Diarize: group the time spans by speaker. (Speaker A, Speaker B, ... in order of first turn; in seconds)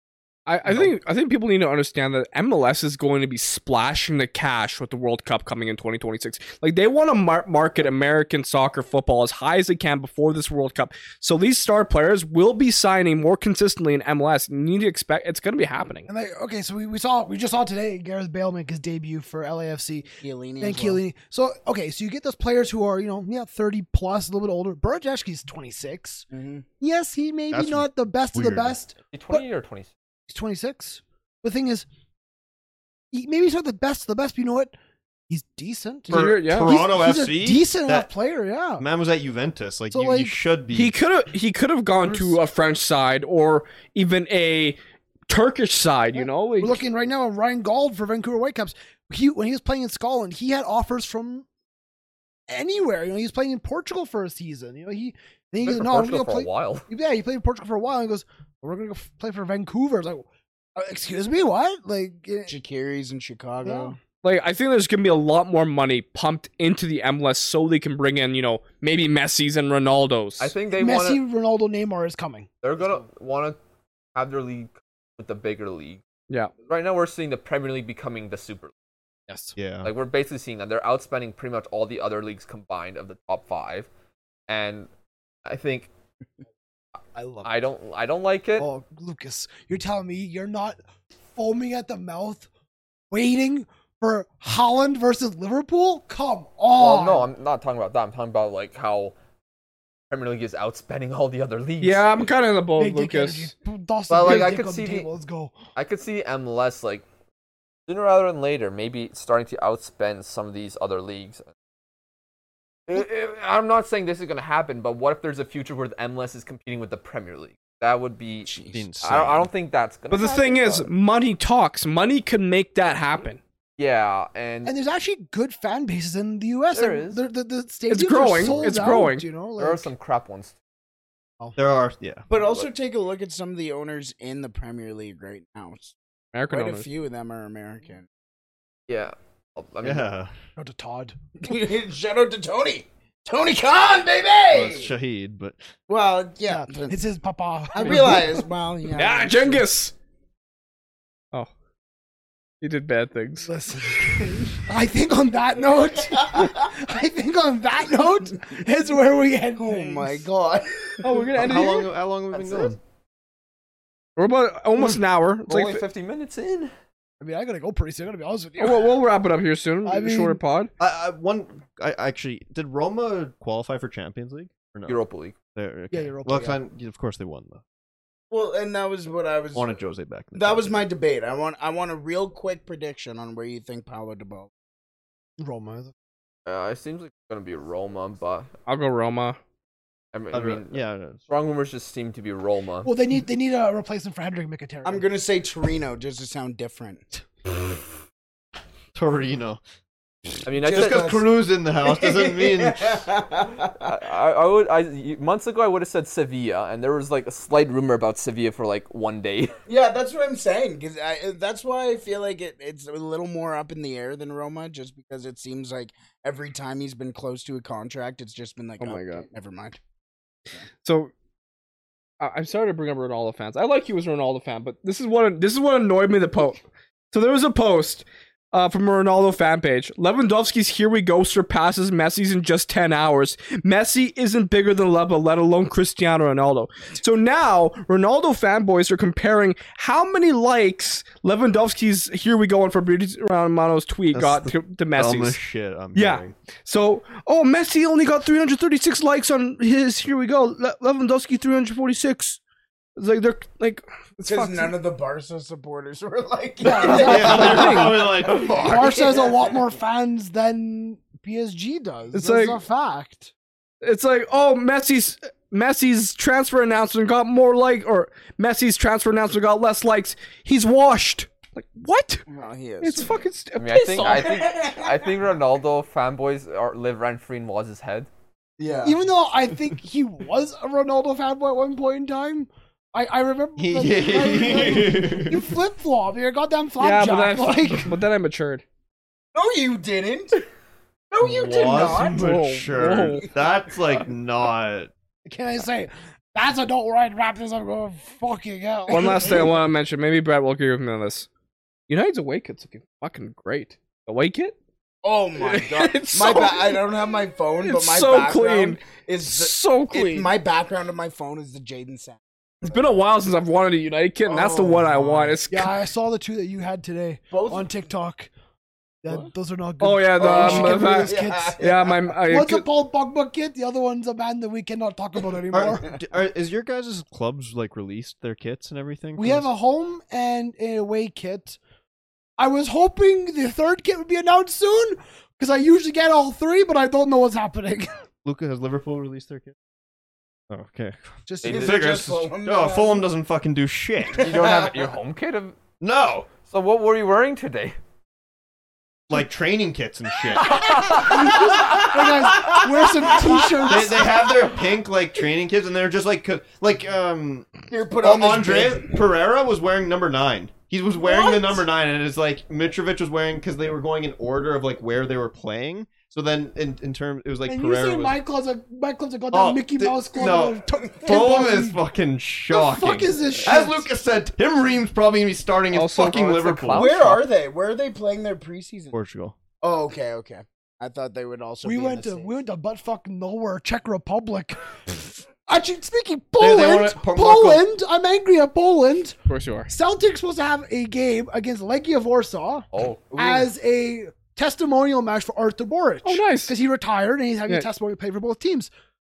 Speaker A: 0.5-16.1, 36.1-36.8, 40.7-46.8, 64.2-70.5, 101.8-103.5, 120.1-123.4, 127.9-129.3, 136.3-136.8, 148.9-149.9, 152.6-153.5, 161.0-161.9, 164.2-165.8, 168.6-170.7, 188.7-189.4, 218.8-219.2, 220.8-221.1, 222.2-245.4, 245.9-252.4, 253.0-254.7, 256.8-258.0, 262.1-262.6, 263.8-272.2, 272.8-274.4, 286.8-288.6, 292.0-293.3, 298.9-301.3, 301.9-304.5, 305.4-306.8, 307.6-310.3, 312.6-315.8, 319.8-322.6, 375.7-376.4, 389.3-389.7, 396.0-396.5
Speaker B: 16.1-20.1, 20.6-26.2, 26.8-29.4, 30.3-31.9, 33.1-34.7, 35.3-38.8, 39.9-40.4, 42.0-42.4, 46.2-51.4, 52.5-60.2, 60.8-62.5, 63.6-63.9, 70.7-72.5, 79.3-79.5, 88.6-90.8, 91.3-92.5, 93.1-97.3, 102.8-105.5, 124.7-129.9, 140.6-141.2, 146.4-148.4, 153.4-160.3, 167.2-168.9, 169.8-170.4, 175.9-176.6, 185.4-185.9, 192.8-195.1, 256.6-257.9, 258.5-263.3, 278.8-287.9, 295.2-299.4, 315.5-318.3, 319.0-321.5, 322.3-325.8, 329.2-331.6, 332.4-337.9, 341.3-341.7, 350.7-354.0, 367.5-371.8, 372.5-373.9, 381.6-384.6, 385.4-389.2, 389.7-398.7
Speaker C: 20.2-21.0, 26.3-26.7, 62.5-64.0, 118.5-118.8, 132.3-135.9, 136.5-138.1, 141.4-144.9, 145.9-147.0, 147.7-149.7, 154.1-154.5, 156.2-156.6, 159.5-161.5, 178.3-179.8, 180.3-184.5, 194.8-197.0, 200.6-203.9, 209.7-219.8, 254.2-259.7, 272.3-273.2, 273.9-275.1, 278.6-279.0, 289.3-290.4, 291.1-292.4, 292.9-293.3, 305.0-312.2, 314.2-315.4, 317.3-317.8, 320.2-322.1, 325.6-326.0, 341.5-343.1, 344.1-344.7, 353.1-354.4, 357.7-359.0, 361.0-361.7, 370.2-371.3, 376.7-378.9, 379.6-382.3
Speaker D: 27.5-28.7, 36.1-38.1, 38.8-40.9, 79.6-79.9, 118.7-119.5, 128.4-129.1, 131.6-132.2, 139.8-140.3, 144.5-145.6, 161.3-162.8, 170.8-175.0, 175.5-177.6, 179.5-180.8, 190.3-191.2, 198.9-199.6, 200.6-203.0, 244.1-246.3, 256.9-259.0, 283.6-285.5, 291.2-294.9, 325.5-329.5, 338.2-339.5, 340.5-344.6, 345.8-346.3, 349.1-351.1, 353.7-368.2, 369.3-376.9, 378.9-379.4, 386.4-387.6
Speaker E: 29.1-29.9, 55.6-56.8, 70.4-71.2, 72.6-73.6, 74.1-76.0, 76.7-78.7, 79.8-83.9, 84.5-84.9, 85.4-85.9, 87.4-88.7, 96.8-99.1, 100.1-102.1, 104.1-105.1, 105.8-107.0, 107.9-111.5, 112.9-120.9, 123.8-124.7, 126.7-127.2, 129.6-130.5, 138.9-140.1, 165.5-166.7, 174.9-175.3, 186.4-188.5, 190.1-192.9, 200.4-201.1, 203.8-209.5, 273.6-278.1, 341.4-341.8, 344.1-345.6, 346.4-347.8, 376.0-377.2, 392.7-393.5